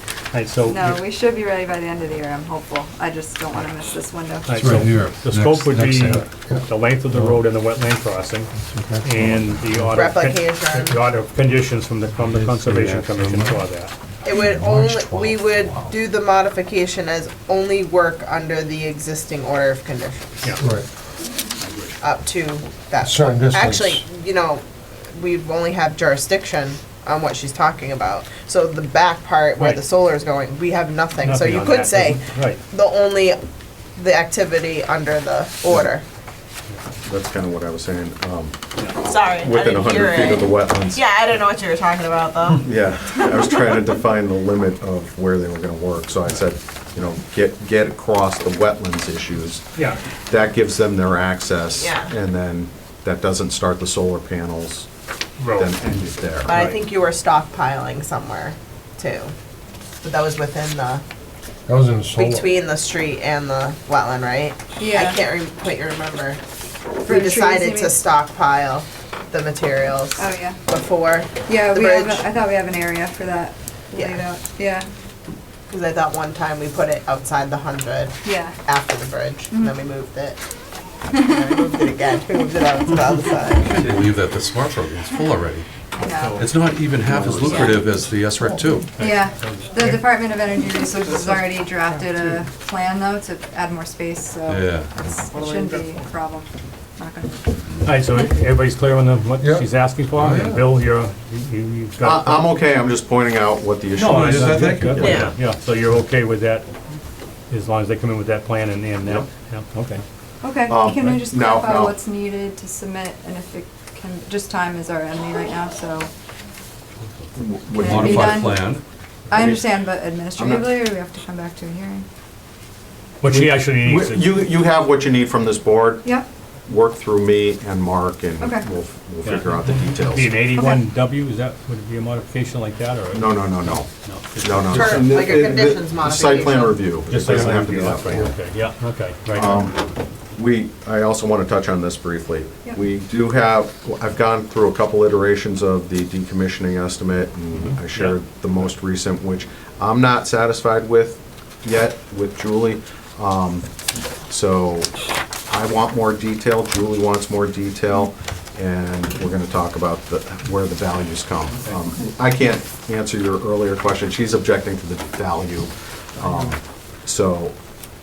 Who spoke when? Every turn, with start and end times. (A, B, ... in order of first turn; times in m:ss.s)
0:00.3-0:01.0 A
0:00.7-0:04.9 B
0:04.5-0:08.5 A
0:04.6-0:06.2 C
0:08.7-0:09.2 D
0:09.0-0:13.9 A
0:09.9-0:11.0 E
0:12.6-0:13.4 C
0:14.2-0:20.4 E
0:20.6-0:20.9 D
0:21.6-0:21.9 A
0:22.0-0:33.4 E
0:23.0-0:24.0 D
0:29.6-0:29.8 A
0:31.2-0:32.6 A
0:34.0-0:36.0 E
0:37.0-0:38.6 F
0:39.0-0:42.7 E
0:39.2-0:41.0 F
0:42.6-0:49.7 F
0:50.3-0:54.9 F
0:51.8-0:52.1 E
0:55.4-0:55.8 A
0:55.5-0:56.6 F
0:56.4-0:59.3 E
0:56.5-0:56.8 A
1:00.0-1:01.0 E
1:01.7-1:02.6 D
1:02.2-1:06.4 E
1:04.8-1:05.2 B
1:07.0-1:12.3 E
1:07.0-1:08.0 B
1:10.2-1:10.6 B
1:11.5-1:14.9 B
1:13.9-1:14.2 E
1:15.7-1:20.4 E
1:18.2-1:18.6 B
1:21.1-1:21.4 B
1:21.1-1:24.0 E
1:23.7-1:25.6 C
1:26.0-1:26.5 B
1:26.1-1:26.5 A
1:26.4-1:28.9 C
1:29.0-1:30.2 A
1:29.0-1:36.5 B
1:34.5-1:34.9 C
1:35.4-1:35.8 A
1:37.0-1:37.3 B
1:37.8-1:42.5 A
1:39.4-1:39.7 D
1:40.2-1:40.7 C
1:42.0-1:45.3 F
1:44.0-1:46.7 A
1:44.2-1:45.1 C
1:45.0-1:45.3 E
1:47.5-1:50.0 A
1:50.4-1:56.1 B
1:50.7-1:52.0 F
1:57.4-1:58.6 F
1:57.7-1:58.8 B
1:57.8-1:58.8 C
1:59.3-2:02.0 B
1:59.3-1:59.7 F
2:00.4-2:00.8 F
2:03.2-2:04.3 A
2:03.3-2:06.1 F
2:06.7-2:10.4 F
2:08.4-2:08.7 B
2:09.2-2:15.3 A
2:13.1-2:13.9 F
2:14.4-2:18.3 F
2:14.7-2:16.8 E
2:17.1-2:19.6 A
2:17.2-2:18.3 D
2:19.3-2:33.7 F
2:27.6-2:28.2 A
2:34.3-2:35.0 F
2:35.5-2:47.6 F